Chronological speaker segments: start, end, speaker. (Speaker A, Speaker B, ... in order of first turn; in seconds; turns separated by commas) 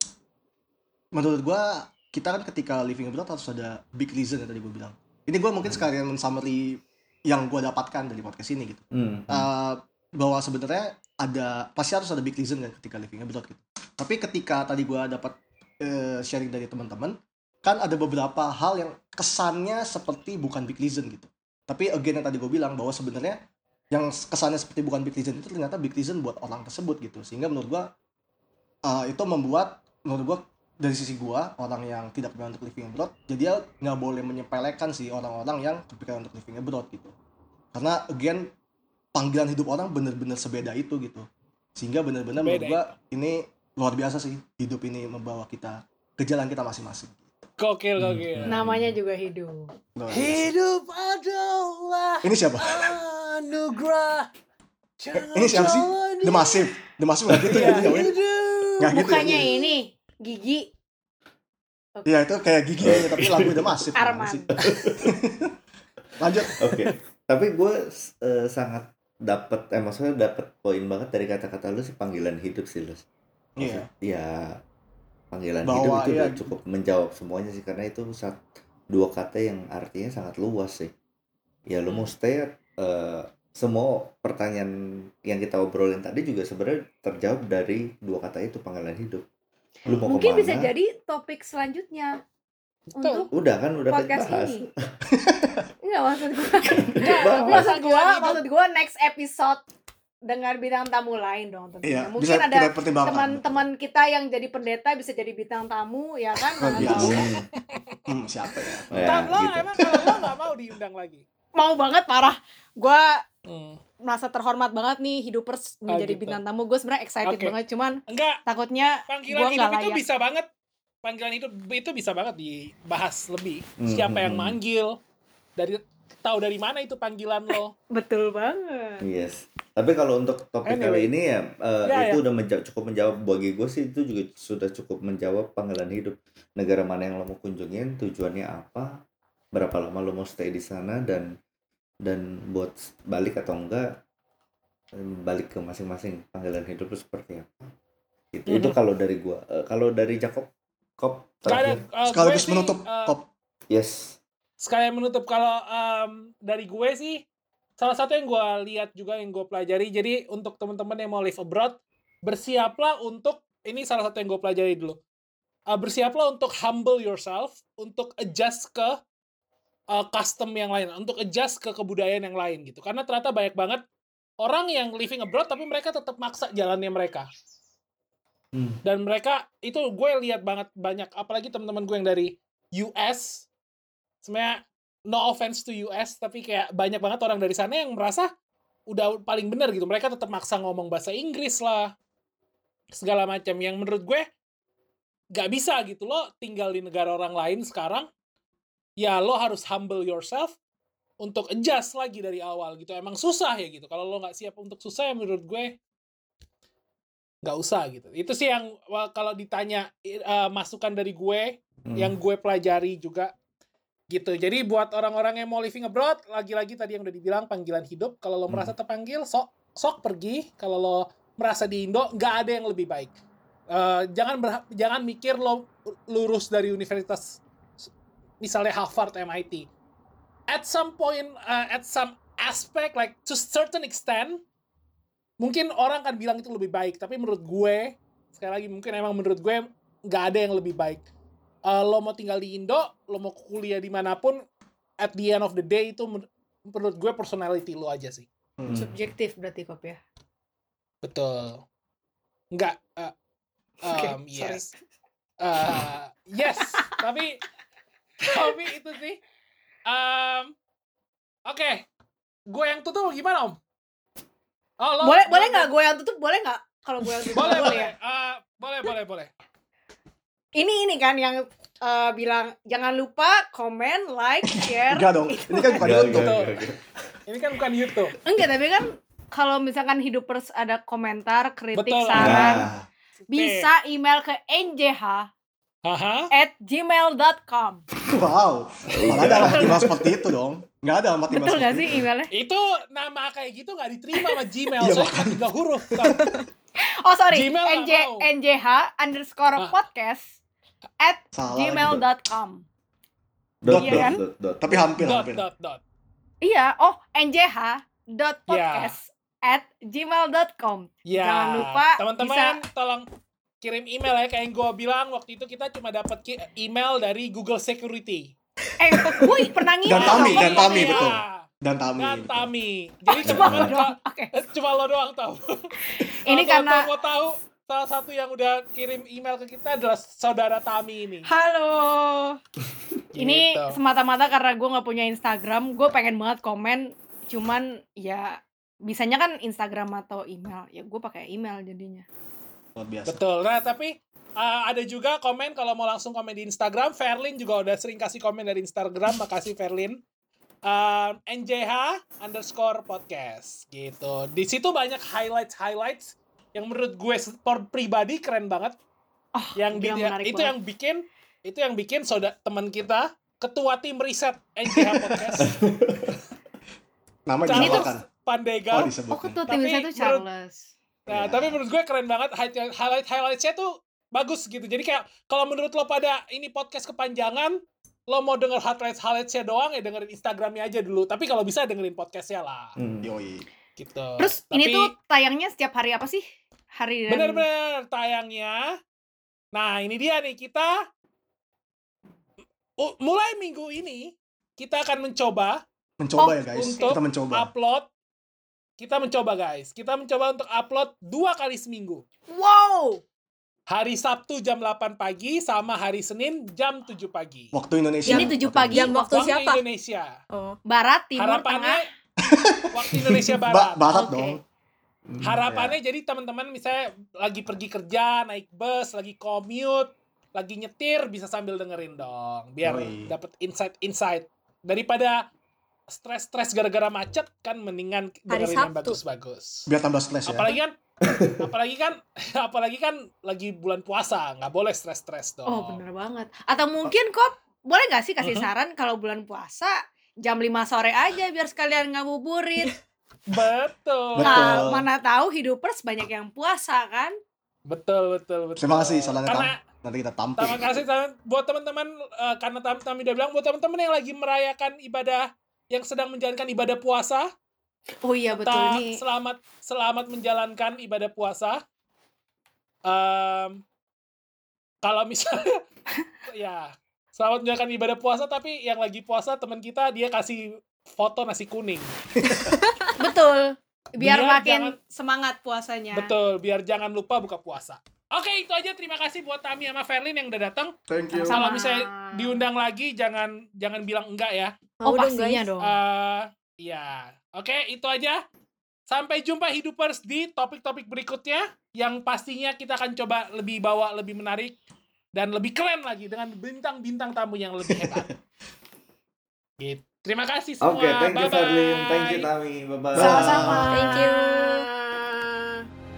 Speaker A: 1.1-23.4, Speaker B: 8.9-9.5, Speaker A: 23.9-27.9, Speaker A: 28.8-37.1, Speaker A: 37.7-38.5, Speaker A: 39.1-47.3, Speaker C: 42.4-42.8, Speaker C: 47.6-48.6, Speaker D: 48.5-49.7, Speaker A: 50.0-50.5, Speaker C: 50.1-54.3, Speaker A: 52.2-53.0, Speaker C: 55.0-56.7, Speaker A: 55.1-58.1, Speaker C: 57.4-59.0, Speaker A: 58.8-59.6, Speaker D: 58.9-60.7, Speaker A: 62.0-65.5, Speaker B: 62.9-63.9, Speaker D: 64.0-64.6, Speaker B: 64.6-65.2, Speaker A: 66.2-66.9, Speaker B: 66.6-73.0, Speaker A: 73.6-73.9, Speaker B: 73.6-74.6, Speaker B: 75.3-80.9, Speaker A: 75.6-76.5, Speaker B: 81.7-89.3, Speaker B: 89.9-90.7, Speaker D: 89.9-92.2, Speaker D: 93.0-93.3, Speaker C: 93.0-93.3, Speaker B: 93.3-94.9, Speaker D: 93.9-94.7, Speaker A: 95.1-95.7, Speaker D: 95.8-99.6, Speaker B: 96.6-97.7, Speaker C: 97.4-98.4, Speaker D: 100.2-107.3, Speaker A: 101.8-103.6, Speaker A: 106.6-107.2, Speaker B: 106.8-107.4, Speaker C: 106.8-108.0, Speaker A: 108.1-109.2, Speaker B: 108.9-109.8, Speaker C: 109.0-111.2, Speaker A: 109.8-110.3, Speaker D: 111.5-113.2, Speaker C: 113.5-113.8, Speaker D: 114.0-120.0, Speaker C: 115.9-116.4, Speaker C: 117.2-117.5, Speaker C: 118.1-118.4, Speaker C: 119.1-120.5, Speaker C: 121.0-125.0, Speaker B: 123.8-124.6, Speaker C: 125.6-127.7, Speaker D: 127.9-129.0, Speaker B: 129.0-139.0, Speaker C: 130.7-131.1, Speaker C: 131.8-132.2, Speaker B: 139.5-141.3, Speaker B: 142.0-144.0, Speaker B: 144.9-147.7, Speaker B: 148.3-151.8, Speaker C: 148.5-148.8, Speaker C: 151.5-153.1, Speaker A: 152.1-153.3, Speaker B: 153.7-154.2, Speaker C: 154.6-157.2, Speaker C: 157.8-165.0, Speaker C: 165.7-169.0, Speaker C: 169.9-173.8, Speaker C: 174.4-177.3, Speaker B: 178.5-178.8, Speaker C: 178.8-183.5, Speaker C: 184.2-188.3, Speaker C: 188.9-191.9, Speaker C: 192.9-194.2, Speaker C: 195.3-198.1, Speaker C: 199.0-200.6, Speaker C: 201.2-205.8, Speaker C: 207.4-213.3, Speaker B: 211.9-212.1, Speaker C: 214.1-223.1, Speaker C: 223.7-227.4, Speaker C: 228.4-229.7, Speaker C: 230.5-234.4, Speaker C: 235.4-241.0, Speaker C: 241.7-244.4, Speaker C: 245.0-248.3, Speaker A: 248.6-248.9, Speaker B: 248.7-249.0, Speaker D: 248.7-250.0, Speaker C: 251.0-251.6, Speaker C: 252.5-253.1, Speaker C: 253.8-254.7, Speaker D: 253.8-254.7, Speaker C: 255.4-257.4, Speaker D: 256.6-257.0, Speaker C: 258.2-259.2, Speaker D: 258.3-258.6, Speaker C: 259.9-260.5, Speaker C: 261.5-261.9, Speaker C: 262.5-263.6, Speaker C: 264.8-265.7, Speaker D: 265.0-267.9, Speaker C: 267.3-269.3, Speaker D: 270.6-275.1, Speaker A: 274.6-276.4, Speaker C: 275.5-276.5, Speaker B: 275.8-277.1, Speaker C: 277.3-278.2, Speaker D: 278.2-282.7, Speaker C: 281.8-282.5, Speaker B: 282.2-282.8, Speaker A: 282.2-282.8, Speaker C: 283.3-283.7, Speaker D: 283.3-285.3, Speaker C: 285.9-286.3, Speaker D: 286.3-287.9, Speaker A: 288.1-292.1, Speaker B: 288.9-290.1, Speaker D: 289.2-289.8, Speaker D: 291.3-292.3, Speaker C: 292.3-296.4, Speaker A: 294.8-296.2, Speaker D: 296.8-300.4, Speaker C: 297.3-298.3, Speaker D: 301.0-302.6, Speaker A: 301.3-302.0, Speaker B: 303.6-304.9, Speaker A: 303.7-305.5, Speaker D: 303.8-304.2, Speaker C: 305.0-305.8, Speaker D: 306.4-312.6, Speaker C: 308.5-308.9, Speaker C: 311.1-313.1, Speaker C: 313.6-318.3, Speaker D: 318.8-321.1, Speaker A: 319.9-322.5, Speaker C: 319.9-321.4, Speaker C: 322.0-331.3, Speaker D: 323.1-324.3, Speaker B: 323.3-323.7, Speaker D: 325.9-326.9, Speaker D: 331.2-332.4, Speaker C: 333.1-333.8, Speaker D: 333.2-342.1, Speaker A: 342.8-343.2, Speaker C: 343.1-350.0, Speaker C: 350.7-358.8, Speaker D: 359.4-360.5, Speaker C: 359.6-365.5, Speaker A: 364.9-365.2, Speaker B: 365.4-366.2, Speaker A: 367.3-368.1, Speaker C: 367.5-368.9, Speaker D: 367.5-367.9, Speaker A: 368.7-369.4, Speaker D: 369.1-370.7, Speaker C: 369.5-370.2, Speaker A: 371.1-371.6, Speaker C: 371.1-377.6, Speaker C: 378.1-382.7, Speaker B: 382.8-383.1, Speaker A: 383.0-383.5, Speaker C: 383.8-384.9, Speaker D: 384.2-386.2, Speaker D: 386.8-387.4, Speaker C: 387.1-388.8, Speaker C: 389.5-390.7, Speaker C: 392.8-395.6, Speaker A: 396.0-397.5, Speaker D: 396.2-397.0, Speaker C: 396.6-397.9, Speaker C: 398.8-402.0, Speaker D: 402.3-403.0, Speaker C: 403.7-407.5, Speaker A: 407.5-408.9, Speaker D: 408.1-409.3, Speaker E: 408.1-409.6, Speaker C: 408.9-410.1, Speaker E: 410.3-410.6, Speaker D: 410.7-411.9, Speaker C: 411.2-411.8, Speaker A: 412.2-414.4, Speaker C: 412.7-413.9, Speaker D: 413.9-414.4, Speaker B: 415.1-415.6, Speaker C: 415.2-425.2, Speaker A: 422.6-423.1, Speaker C: 425.9-429.7, Speaker E: 428.3-429.0, Speaker A: 429.7-430.5, Speaker C: 430.3-430.8, Speaker B: 431.1-431.3, Speaker C: 431.4-435.8, Speaker D: 435.5-442.8, Speaker C: 438.2-438.5, Speaker C: 443.3-444.6, Speaker A: 444.2-444.9, Speaker D: 444.2-447.1, Speaker C: 447.7-449.6, Speaker A: 448.6-450.9, Speaker C: 450.4-457.3, Speaker D: 458.0-459.0, Speaker C: 458.4-461.6, Speaker C: 462.9-463.6, Speaker C: 464.8-465.6, Speaker C: 466.3-471.9, Speaker E: 472.4-472.9, Speaker D: 473.0-476.1, Speaker C: 474.0-474.8, Speaker C: 475.9-480.7, Speaker A: 480.9-481.4, Speaker D: 481.1-482.4, Speaker C: 481.3-484.5, Speaker E: 484.8-485.5, Speaker D: 484.8-485.8, Speaker C: 485.6-488.2, Speaker C: 488.9-494.6, Speaker C: 495.2-498.1, Speaker A: 497.7-498.1, Speaker C: 499.6-502.3, Speaker B: 500.6-503.7, Speaker D: 502.9-505.7, Speaker A: 503.0-503.7, Speaker E: 503.7-504.6